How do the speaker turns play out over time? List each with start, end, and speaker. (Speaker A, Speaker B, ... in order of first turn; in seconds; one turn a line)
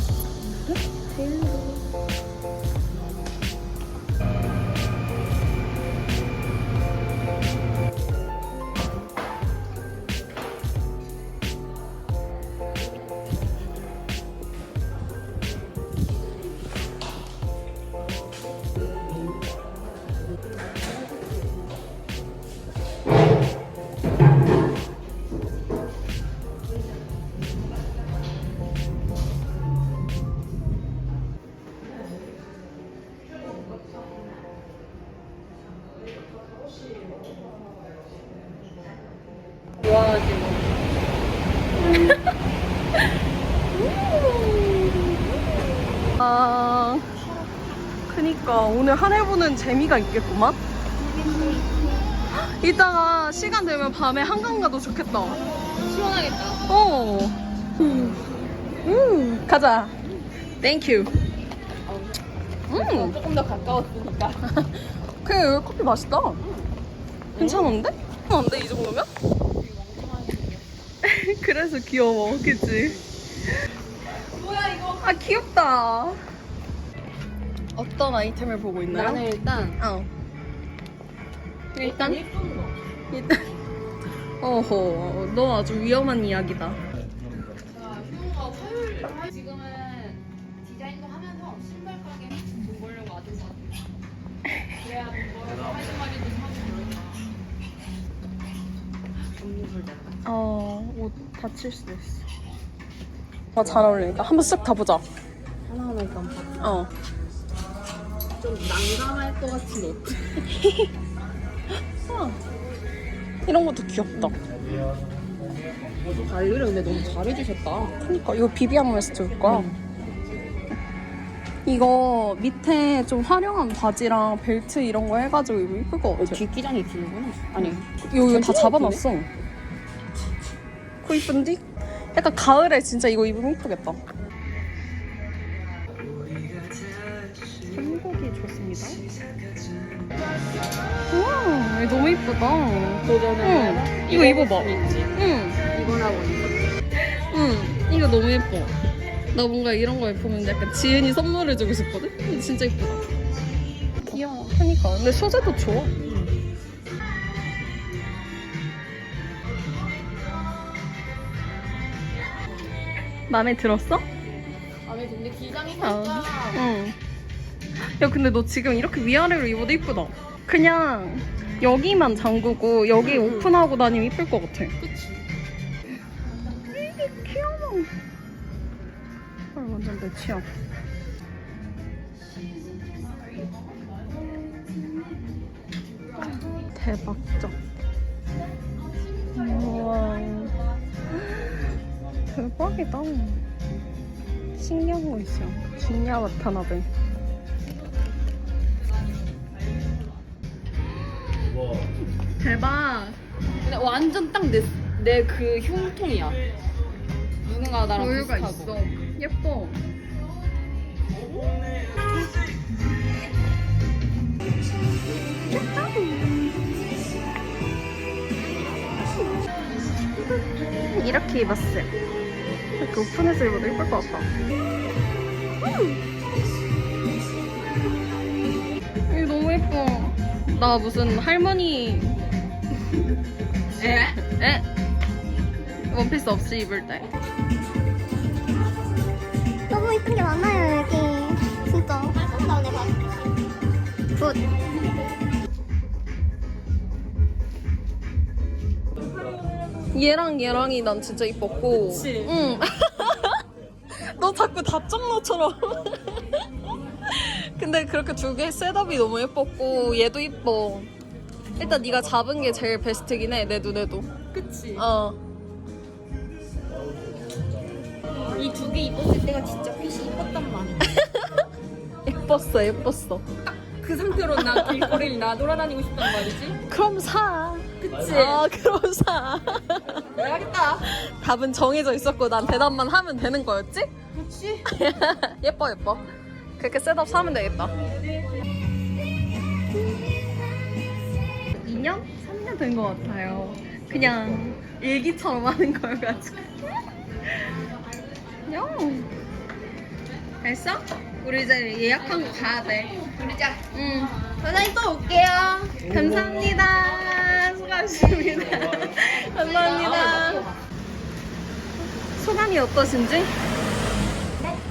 Speaker A: 0.6-1.9
Speaker B: 39.8-40.8
Speaker A: 41.9-42.2
Speaker A: 43.9-45.0
Speaker A: 46.2-47.1
Speaker A: 48.1-50.6
Speaker B: 51.0-51.7
Speaker A: 52.3-55.4
Speaker B: 55.8-56.6
Speaker A: 56.7-58.1
Speaker A: 58.8-59.9
Speaker A: 60.6-61.1
Speaker B: 61.9-64.4
Speaker A: 62.7-63.2
Speaker A: 64.4-66.4
Speaker B: 66.4-66.7
Speaker B: 67.3-67.7
Speaker A: 67.4-69.1
Speaker B: 69.5-70.7
Speaker A: 71.0-73.0
Speaker B: 74.4-74.9
Speaker A: 74.9-76.2
Speaker A: 77.7-79.2
Speaker B: 78.9-79.8
Speaker A: 79.8-80.1
Speaker A: 81.7-82.2
Speaker B: 81.8-82.7
Speaker A: 83.1-83.5
Speaker A: 84.4-86.8
Speaker B: 87.7-93.9
Speaker B: 94.8-97.2
Speaker B: 99.3-100.2
Speaker A: 100.2-102.2
Speaker A: 103.5-105.0
Speaker B: 105.7-106.6
Speaker A: 106.6-106.9
Speaker B: 108.4-110.4
Speaker A: 110.5-110.9
Speaker A: 112.0-112.4
Speaker A: 113.5-114.3
Speaker B: 116.2-118.0
Speaker A: 118.0-119.7
Speaker B: 119.4-119.7
Speaker A: 121.6-126.4
Speaker B: 126.2-129.0
Speaker A: 127.6-129.3
Speaker A: 131.0-131.6
Speaker A: 132.1-134.0
Speaker A: 137.6-139.0
Speaker A: 141.1-145.6
Speaker B: 143.0-145.2
Speaker B: 145.7-146.8
Speaker A: 147.3-148.7
Speaker A: 149.3-153.0
Speaker B: 154.0-154.5
Speaker A: 154.1-155.9
Speaker B: 156.0-156.4
Speaker A: 163.3-164.0
Speaker B: 164.8-166.6
Speaker A: 165.8-166.9
Speaker A: 167.8-174.7
Speaker B: 173.0-173.5
Speaker B: 174.8-175.2
Speaker A: 176.7-177.9
Speaker A: 179.5-180.4
Speaker A: 184.4-185.1
Speaker A: 186.6-187.6
Speaker A: 189.3-190.5
Speaker A: 191.1-191.6
Speaker A: 192.3-193.4
Speaker A: 194.6-196.9
Speaker A: 202.4-203.2
Speaker B: 203.6-206.4
Speaker B: 207.4-208.8
Speaker A: 207.9-209.8
Speaker A: 215.5-216.0
Speaker A: 220.8-221.9
Speaker A: 222.8-224.3
Speaker A: 229.1-232.2
Speaker B: 233.8-234.2
Speaker A: 234.2-234.6
Speaker A: 235.9-237.1
Speaker C: 239.7-243.1
Speaker C: 244.2-244.4
Speaker A: 249.9-256.4
Speaker B: 251.9-252.3
Speaker A: 257.1-260.9
Speaker A: 261.6-264.1
Speaker B: 264.3-264.9
Speaker A: 264.7-265.2
Speaker B: 268.3-270.8
Speaker A: 270.8-271.4
Speaker A: 272.1-273.2
Speaker B: 273.5-276.6
Speaker A: 274.4-274.8
Speaker A: 276.7-280.1
Speaker B: 277.8-278.4
Speaker B: 280.1-280.9
Speaker A: 280.8-283.9
Speaker B: 284.2-284.6
Speaker A: 284.6-286.1
Speaker A: 286.6-287.7
Speaker A: 291.6-296.5
Speaker A: 298.4-299.1
Speaker A: 300.4-303.0
Speaker B: 303.0-303.6
Speaker A: 303.7-304.2
Speaker B: 304.4-305.8
Speaker A: 305.8-310.4
Speaker B: 308.1-310.6
Speaker A: 312.1-313.3